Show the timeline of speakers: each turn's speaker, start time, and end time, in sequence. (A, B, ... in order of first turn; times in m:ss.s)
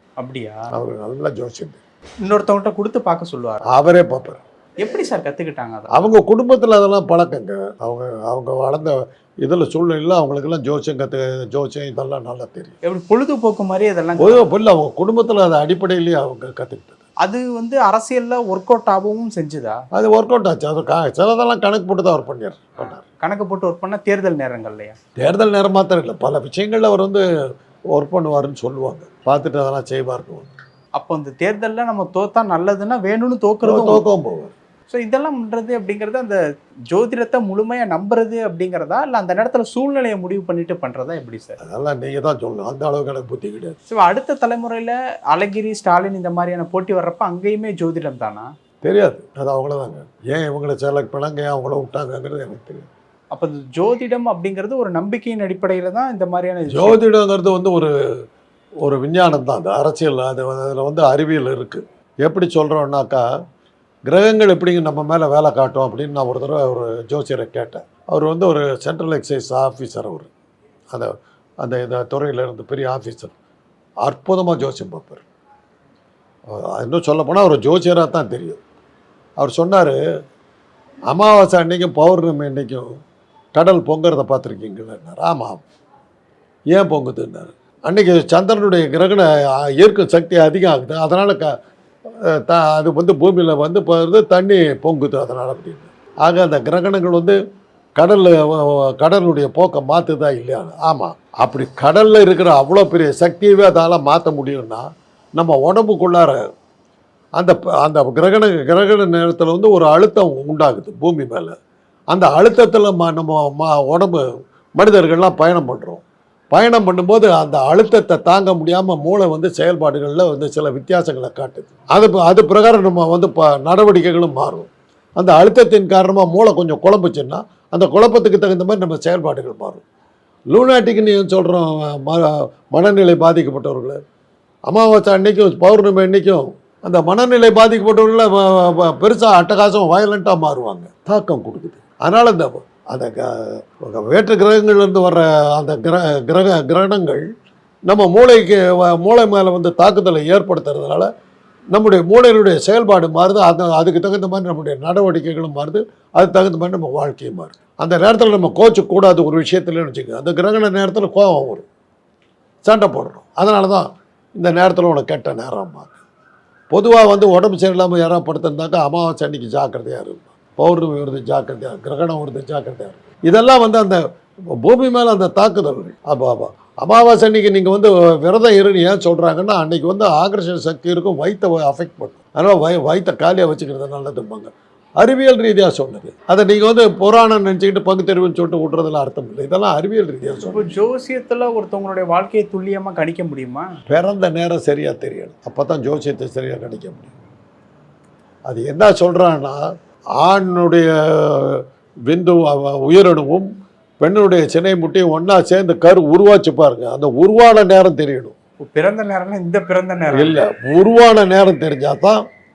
0:00.2-0:00.7 A
0:00.7-0:01.8 B
0:02.2-0:03.6 A
0:03.7-0:04.4 B
0:04.8-0:05.9 A
0:05.9-0:12.8 B
0:12.8-0:14.4 A
0:14.2-0:17.0 B
0:17.2-0:19.8 A
0:19.9-0:23.0 B
0:22.8-0:25.0 A
0:25.2-0:27.2 B
0:27.9-0:30.5 B
0:31.0-0:34.0 A
0:33.6-0:34.5 B
0:34.9-0:41.6 A
0:41.6-0:43.8 B
0:43.9-0:48.5 A
0:48.8-0:52.9 B
0:53.3-0:57.0 A
0:56.7-0:57.9 B
0:58.8-1:03.2 B
1:04.1-1:10.3 B
1:10.9-1:13.3 B
1:14.0-1:15.2 B
1:16.5-1:18.6 B
1:19.4-1:20.0 B
1:21.1-1:23.0 B
1:23.6-1:25.6 B
1:26.7-1:31.5 B
1:32.2-1:37.4 B
1:38.0-1:46.4 B
1:47.4-1:51.6 B
1:52.1-1:54.2 B
1:54.8-2:09.8 B
2:10.5-2:14.0 B
2:14.7-2:27.2 B
2:27.9-2:31.1 B
2:31.7-2:41.7 B
2:42.6-2:46.0 B
2:46.7-3:10.8 B
3:10.4-3:13.7 A
3:13.9-3:17.1 B
3:18.5-3:19.6 B
3:20.2-3:23.5 B
3:24.0-3:28.4 B
3:28.6-3:30.4 A
3:30.1-3:32.2 B